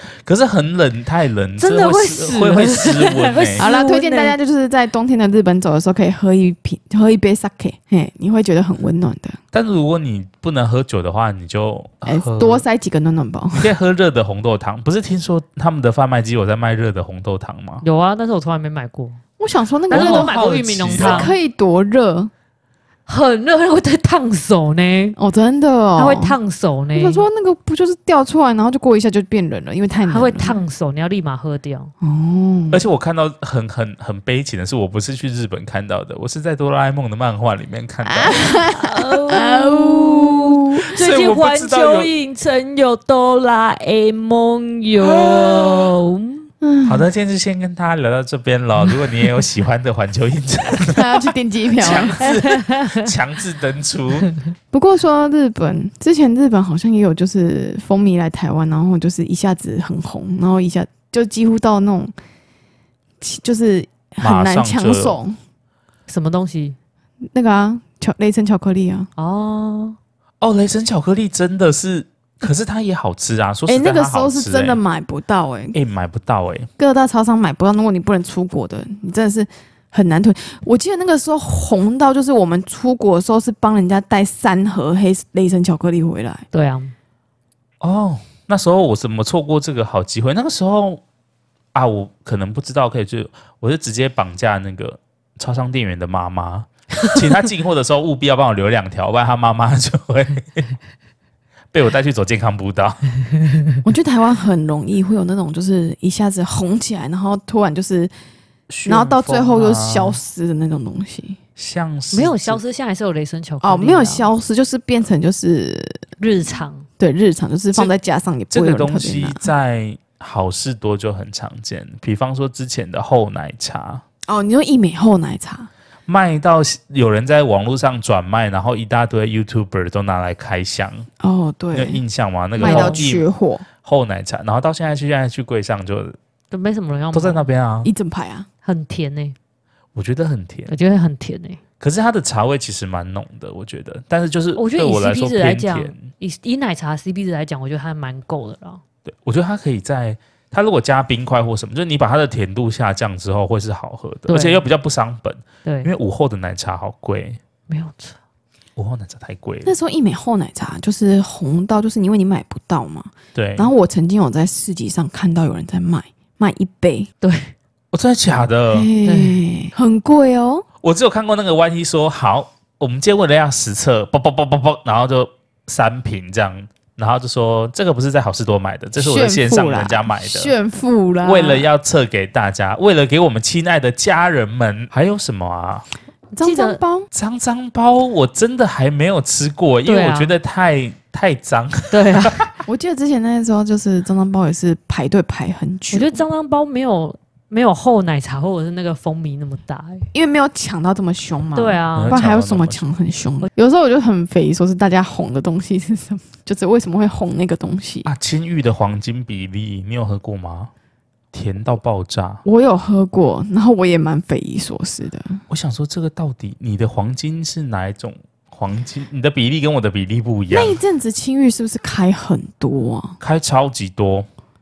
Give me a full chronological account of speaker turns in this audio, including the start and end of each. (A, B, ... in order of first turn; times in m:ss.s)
0:00.2-0:03.7 A
0:01.6-0:04.4 B
0:03.6-0:09.4 C
0:09.5-0:12.6 A
0:12.1-0:13.7 C
0:13.6-0:17.8 A
0:17.8-0:19.2 B
0:19.4-0:22.3 C
0:19.9-0:21.3 A
0:19.9-0:21.4 B
0:23.1-0:25.2 B
0:25.2-0:26.4 C
0:26.0-0:27.2 B
0:27.0-0:30.6 C
0:30.1-0:31.9 B
0:32.0-0:32.8 C
0:32.7-0:38.6 A
0:38.0-0:40.8 C
0:38.8-0:46.5 B
0:40.8-0:42.1 A
0:45.0-0:45.9 A
0:46.6-0:47.1 C
0:46.8-0:51.2 A
0:50.8-0:52.2 C
0:51.8-0:54.3 A
0:51.8-0:53.1 B
0:54.7-1:02.1 C
1:03.2-1:05.4 C
1:04.2-1:05.2 A
1:06.1-1:06.8 B
1:07.3-1:09.1 C
1:09.2-1:10.0 B
1:10.4-1:14.8 A
1:13.7-1:15.8 C
1:15.7-1:16.7 A
1:16.8-1:26.4 C
1:26.5-1:26.9 B
1:27.8-1:31.0 A
1:31.7-1:40.7 A
1:41.7-1:43.0 A
1:43.8-1:48.1 C
1:48.7-1:50.2 A
1:48.9-1:51.4 C
1:51.6-1:52.6 A
1:52.1-1:54.3 B
1:53.6-1:56.1 C
1:56.2-1:56.9 B
1:57.0-1:59.5 C
1:58.5-2:04.0 A
2:04.3-2:05.7 C
2:06.1-2:11.1 A
2:11.2-2:12.0 C
2:11.7-2:13.3 A
2:12.6-2:13.7 C
2:12.6-2:13.0 B
2:13.8-2:16.2 A
2:16.5-2:17.4 B
2:17.1-2:17.9 A
2:17.8-2:18.5 C
2:18.6-2:19.4 B
2:20.0-2:20.7 A
2:20.7-2:21.6 B
2:21.8-2:26.1 A
2:24.6-2:28.8 B
2:29.1-2:37.4 A
2:34.3-2:34.7 B
2:35.6-2:35.9 B
2:37.7-2:38.2 B
2:38.8-2:39.7 A
2:39.7-2:47.1 C
2:43.4-2:43.7 A
2:47.2-2:47.5 B
2:47.9-2:48.9 A
2:48.7-2:50.7 C
2:49.0-2:49.4 B
2:50.8-3:00.5 A
2:59.0-3:01.7 C
3:01.2-3:05.9 A
3:06.3-3:06.8 B
3:06.4-3:07.1 C
3:07.1-3:12.5 A
3:09.9-3:10.3 B
3:11.9-3:12.5 B
3:12.7-3:16.2 C
3:15.9-3:20.1 B
3:20.1-3:28.1 C
3:21.6-3:22.2 B
3:22.0-3:22.8 A
3:28.0-3:30.7 A
3:31.3-3:32.4 A
3:32.4-3:35.4 C
3:35.5-3:40.8 A
3:40.5-3:43.2 C
3:43.2-3:44.3 A